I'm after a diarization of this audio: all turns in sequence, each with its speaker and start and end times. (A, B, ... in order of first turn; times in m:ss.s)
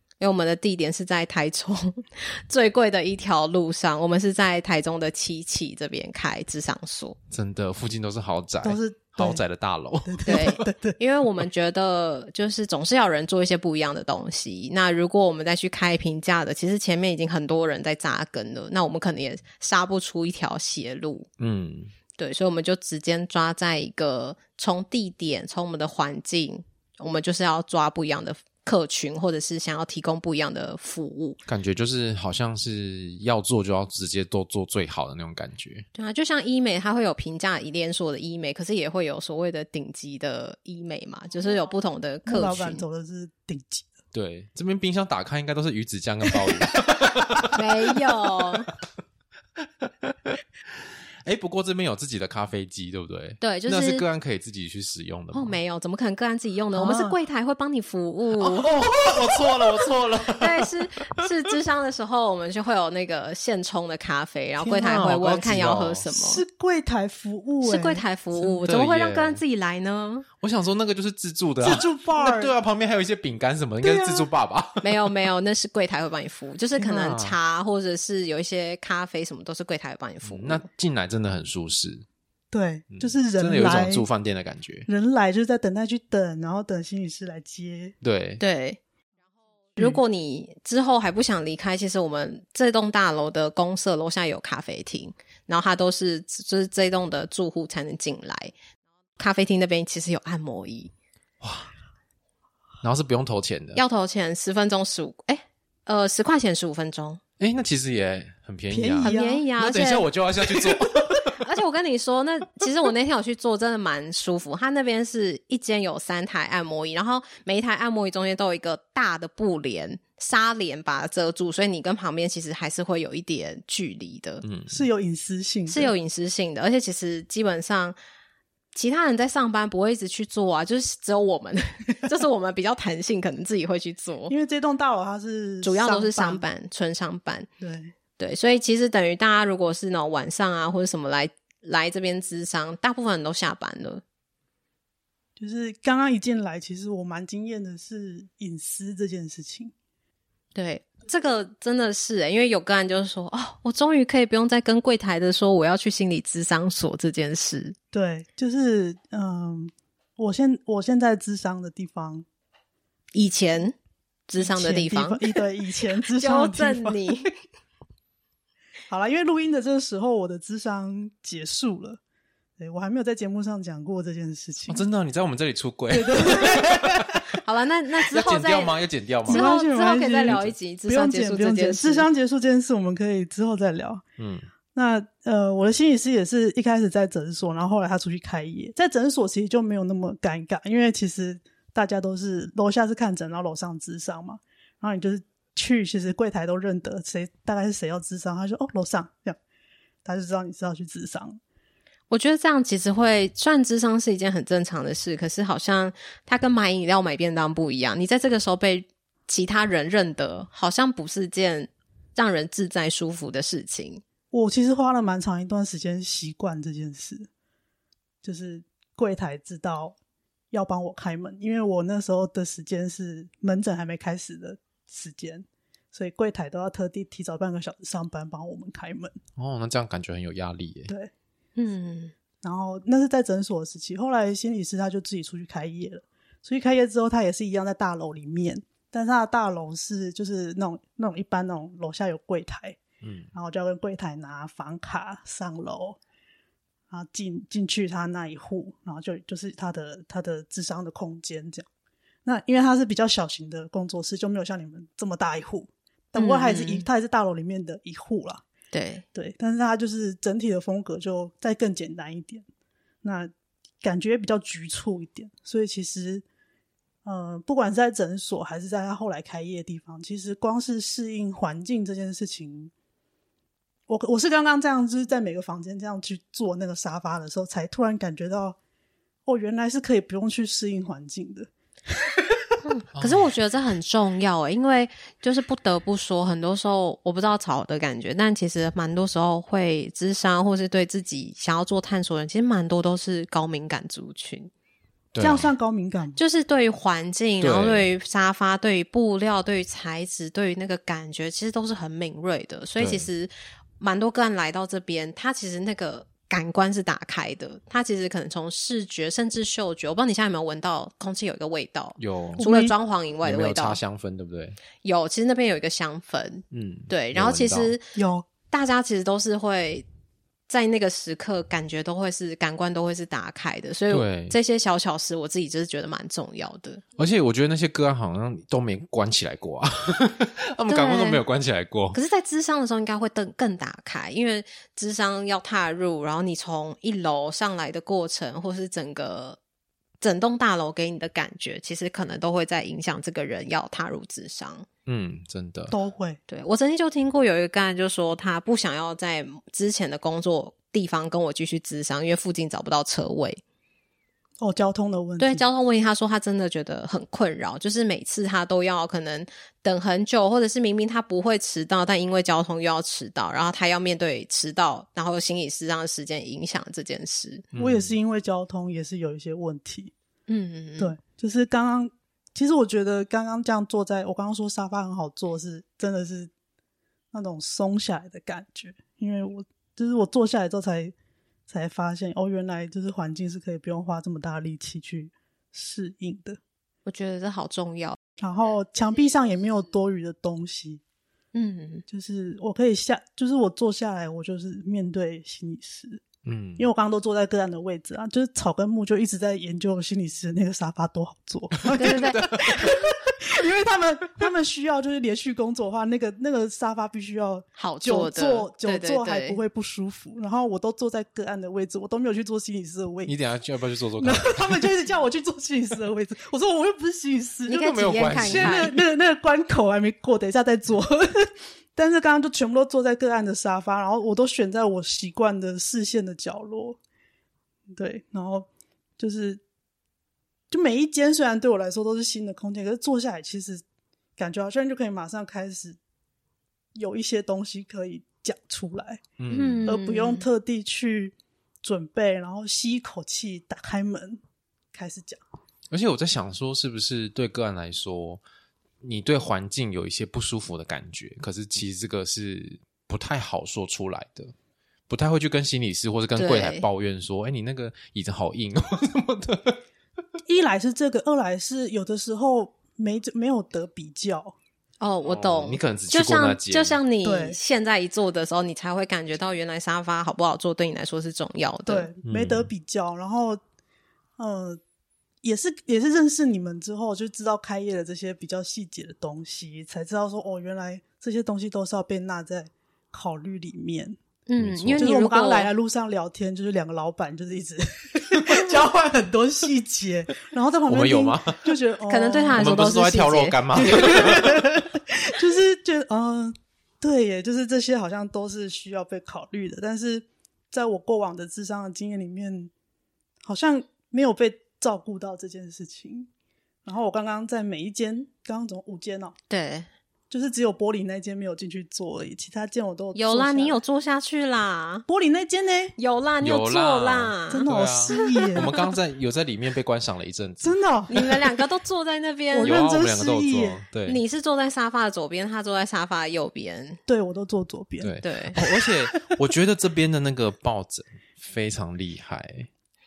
0:00.2-0:07.2 A
0:07.3-0:10.5 B
0:08.6-0:09.4 C
0:10.0-0:11.0 C
0:10.2-0:21.3 A
0:21.4-0:21.9 B
0:22.2-0:31.4 A
0:31.5-0:35.9 B
0:35.9-0:42.8 A
0:42.2-0:43.9 C
0:44.1-0:47.6 B
0:47.5-0:48.7 A
0:49.8-0:50.1 B
0:51.2-0:55.5 B
0:53.4-0:54.0 A
0:55.3-0:58.7 A
0:58.4-1:00.7 B
1:00.4-1:06.4 A
1:04.8-1:06.0 B
1:06.1-1:08.0 C
1:07.6-1:10.3 A
1:08.5-1:09.4 B
1:10.4-1:15.1 B
1:11.6-1:12.5 C
1:13.8-1:14.3 C
1:14.8-1:20.6 A
1:16.8-1:17.4 B
1:20.2-1:22.0 B
1:22.5-1:24.0 C
1:22.9-1:24.9 B
1:24.9-1:27.9 C
1:28.0-1:28.4 B
1:28.4-1:28.8 A
1:29.8-1:38.5 A
1:39.2-1:40.9 A
1:41.4-1:41.7 B
1:42.8-1:43.8 B
1:43.7-1:47.2 A
1:47.4-1:51.4 B
1:48.7-1:49.4 C
1:49.0-1:50.1 A
1:51.3-2:04.4 A
2:04.4-2:04.8 B
2:04.7-2:05.9 C
2:05.7-2:08.0 A
2:08.7-2:14.3 A
2:14.3-2:16.4 C
2:15.6-2:17.5 A
2:17.6-2:17.9 C
2:18.2-2:24.0 A
2:25.4-2:29.7 C
2:30.5-2:37.8 A
2:37.9-2:42.2 C
2:43.1-2:43.7 A
2:44.3-2:45.4 A
2:44.4-2:47.0 C
2:46.1-2:47.3 A
2:48.9-2:52.0 C
2:52.6-2:54.8 C
2:54.7-2:57.0 B
2:55.9-2:57.2 C
2:57.4-3:02.1 A
2:58.1-2:59.5 B
2:59.2-3:04.0 C
3:04.2-3:04.5 B
3:04.7-3:19.4 C
3:20.0-3:21.4 C
3:22.1-3:34.0 A
3:34.3-3:37.3 C
3:38.2-3:40.0 C
3:40.5-3:49.2 C
3:49.4-3:50.9 B
3:51.6-3:52.1 A
3:52.4-4:02.8 C
4:03.0-4:03.3 B
4:03.3-4:06.0 C
4:06.9-4:11.7 C
4:12.2-4:18.4 C
4:16.1-4:16.9 A
4:18.7-4:19.0 A
4:19.1-4:22.4 C
4:23.0-4:26.2 C
4:27.0-4:32.7 C
4:33.9-4:38.6 C
4:39.2-4:41.5 C
4:42.6-4:54.5 A
4:43.0-4:43.3 B
4:55.1-4:55.5 B
4:55.2-4:56.2 C
4:56.2-5:13.8 A
4:57.4-4:57.8 B
5:02.8-5:03.0 B
5:12.0-5:12.4 B
5:12.4-5:12.7 C
5:13.2-5:14.6 B
5:14.8-5:17.8 A
5:16.5-5:17.7 B
5:18.0-5:18.2 C
5:18.5-5:19.8 A
5:20.5-5:26.8 A
5:23.9-5:24.3 B
5:27.0-5:32.0 B
5:30.7-5:31.2 A
5:31.9-5:39.4 A
5:40.0-5:44.6 A
5:44.8-5:45.7 B
5:45.7-5:46.2 C
5:46.3-5:53.4 A
5:54.4-5:55.4 C
5:55.2-6:07.4 A
6:07.5-6:07.9 B
6:07.6-6:09.9 C
6:10.3-6:11.0 A
6:10.8-6:16.3 C
6:17.1-6:20.9 C
6:21.5-6:26.4 C
6:26.8-6:28.0 A
6:28.2-6:30.8 C
6:31.3-6:31.8 A
6:31.9-6:36.0 C
6:36.2-6:36.7 B
6:36.6-6:53.1 C
6:41.7-6:42.7 B
6:41.8-6:42.3 A
6:47.6-6:49.4 A
6:53.0-6:54.7 B
6:54.0-7:06.8 C
6:57.5-6:58.7 A
6:57.5-6:58.8 B
7:07.7-7:08.5 C
7:09.0-7:09.4 C
7:10.5-7:13.6 C
7:14.2-7:15.8 C
7:16.7-7:19.0 C
7:19.2-7:19.6 B
7:19.3-7:20.2 A
7:19.6-7:24.2 C
7:24.7-7:25.2 C
7:25.7-7:28.2 B
7:28.8-7:34.3 B
7:34.9-7:39.6 B
7:36.2-7:36.6 A
7:40.2-7:44.4 C
7:44.8-7:51.9 A
7:45.0-7:46.8 B
7:47.0-7:47.4 C
7:51.6-7:53.4 C
7:52.0-7:52.5 B
7:54.2-7:54.6 C
7:55.2-8:04.0 C
8:04.3-8:05.5 A
8:04.4-8:04.8 B
8:04.8-8:12.4 C
8:10.7-8:11.6 B
8:11.9-8:13.4 A
8:12.4-8:14.4 B
8:13.5-8:22.5 C
8:23.2-8:26.1 C
8:26.6-8:29.2 C
8:29.3-8:29.7 A
8:30.1-8:33.6 C
8:32.9-8:34.8 A
8:34.9-8:35.7 C
8:35.8-8:38.5 A
8:36.2-8:40.6 B
8:37.3-8:38.6 C
8:40.4-8:41.0 C
8:40.9-8:42.6 A
8:42.3-8:43.6 C
8:42.4-8:44.0 B
8:43.8-8:46.8 A
8:46.9-8:49.1 C
8:47.8-8:52.5 B
8:48.0-8:48.4 A